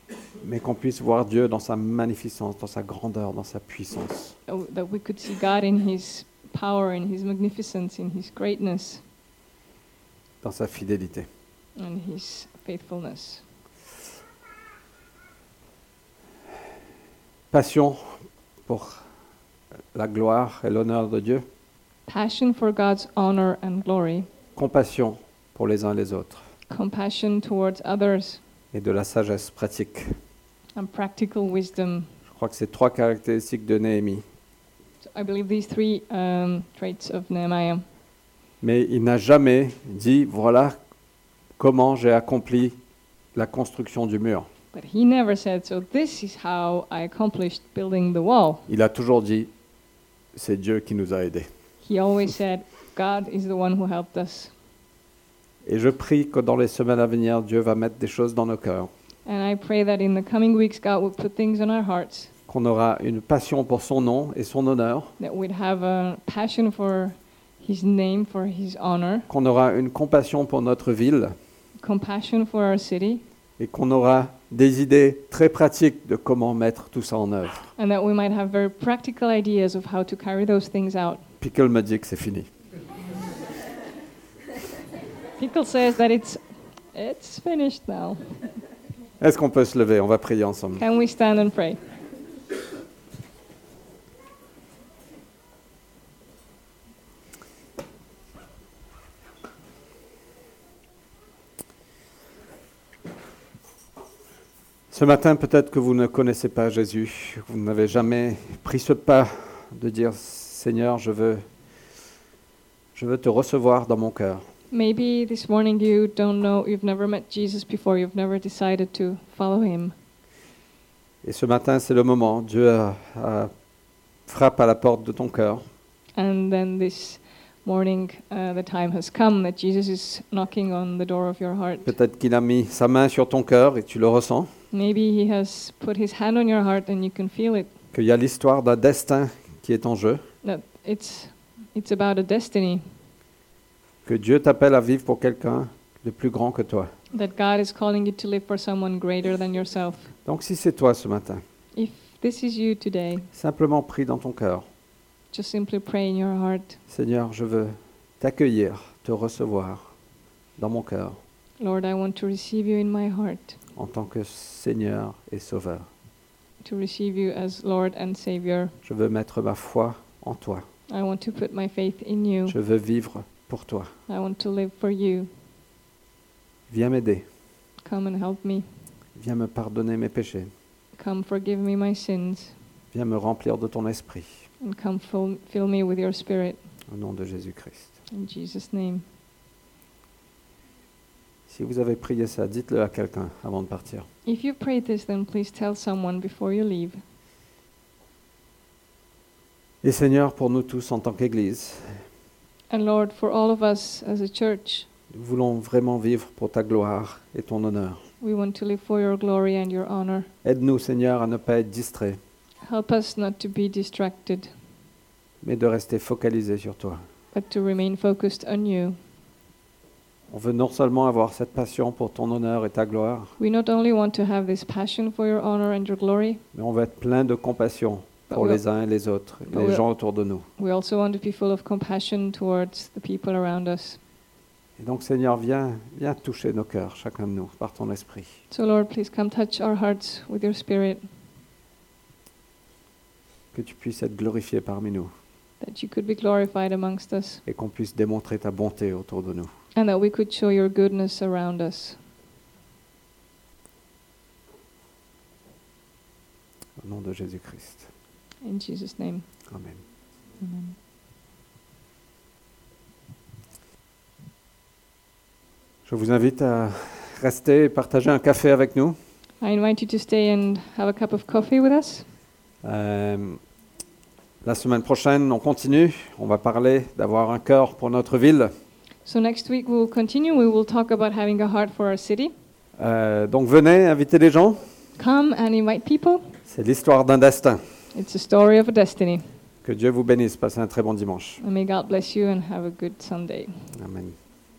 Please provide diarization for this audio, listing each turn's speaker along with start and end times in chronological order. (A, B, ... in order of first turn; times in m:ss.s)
0:00.4-0:04.4 A
0:04.5-0:09.0 B
0:10.4-0:11.3 A
0:11.8-0:13.4 B
0:17.5-0:19.0 A
0:19.9-0:21.4 A
0:22.1-0:24.3 B
0:24.6-0:26.4 A
0:26.7-0:28.4 B
0:28.7-0:30.1 A
0:30.8-0:32.1 B
0:32.3-0:34.2 A
0:35.0-0:37.8 B
0:38.6-0:40.8 A
0:41.6-0:42.8 A
0:43.4-0:44.5 A
0:44.7-0:48.7 B
0:48.7-0:49.5 A
0:50.3-0:51.5 A
0:51.8-0:54.5 B
0:55.6-0:58.9 A
0:59.3-1:02.3 B
1:02.5-1:05.1 A
1:05.2-1:09.3 B
1:09.3-1:11.4 A
1:11.8-1:13.2 B
1:13.6-1:17.7 A
1:17.8-1:21.2 B
1:21.4-1:22.5 A
1:25.4-1:26.4 B
1:26.9-1:28.4 B
1:29.2-1:30.8 A
1:30.8-1:31.8 B
1:44.9-1:51.4 A
1:53.0-1:54.4 A
1:54.7-2:00.0 B
2:01.2-2:03.5 A
2:04.3-2:05.6 A
2:06.2-2:11.9 B
2:11.8-2:14.5 A
2:14.7-2:17.7 B
2:17.9-2:20.2 A
2:20.4-2:22.8 B
2:24.0-2:26.9 A
2:27.1-2:30.1 B
2:30.3-2:31.4 A
2:31.7-2:33.3 B
2:33.3-2:34.7 A
2:35.3-2:36.8 B
2:36.9-2:39.8 A
2:40.6-2:41.2 A
2:41.6-2:43.6 B
2:43.8-2:45.9 A
2:46.6-2:48.8 B
2:48.8-2:50.7 A
2:50.9-2:52.6 B
2:52.5-2:53.9 A
2:54.1-2:55.3 B
2:56.7-2:57.2 A
2:57.8-2:58.7 B
2:59.2-3:00.5 A
3:01.0-3:02.6 B
3:02.9-3:04.5 A
3:04.6-3:06.6 B
3:06.9-3:08.0 A
3:08.1-3:09.0 B
3:11.5-3:14.1 A
3:14.2-3:17.0 B
3:19.8-3:22.0 A
3:22.7-3:24.9 B
3:25.1-3:28.0 A
3:28.2-3:30.3 B
3:30.4-3:32.2 A
3:32.6-3:34.5 B
3:35.4-3:37.0 A
3:37.3-3:39.0 B
3:40.3-3:43.3 A
3:43.4-3:46.4 B
3:46.5-3:50.5 A
3:48.3-3:48.6 B
3:49.5-3:49.8 B
3:50.6-3:54.0 B
3:54.8-3:58.4 A
3:58.5-4:01.0 B
4:03.5-4:05.1 A
4:05.6-4:07.4 B
4:07.5-4:09.5 A
4:09.8-4:12.0 B
4:16.8-4:17.9 A
4:18.4-4:19.3 B
4:19.5-4:19.8 A
4:20.4-4:20.8 B
4:25.9-4:29.0 A
4:29.4-4:32.1 B
4:32.6-4:33.4 A
4:34.4-4:38.5 A
4:39.0-4:42.3 B
4:42.8-4:44.7 A
4:45.0-4:46.2 B
4:46.5-4:47.6 A
4:47.9-4:49.2 B
4:49.6-4:51.4 A
4:51.4-4:53.7 B
4:53.7-4:54.2 A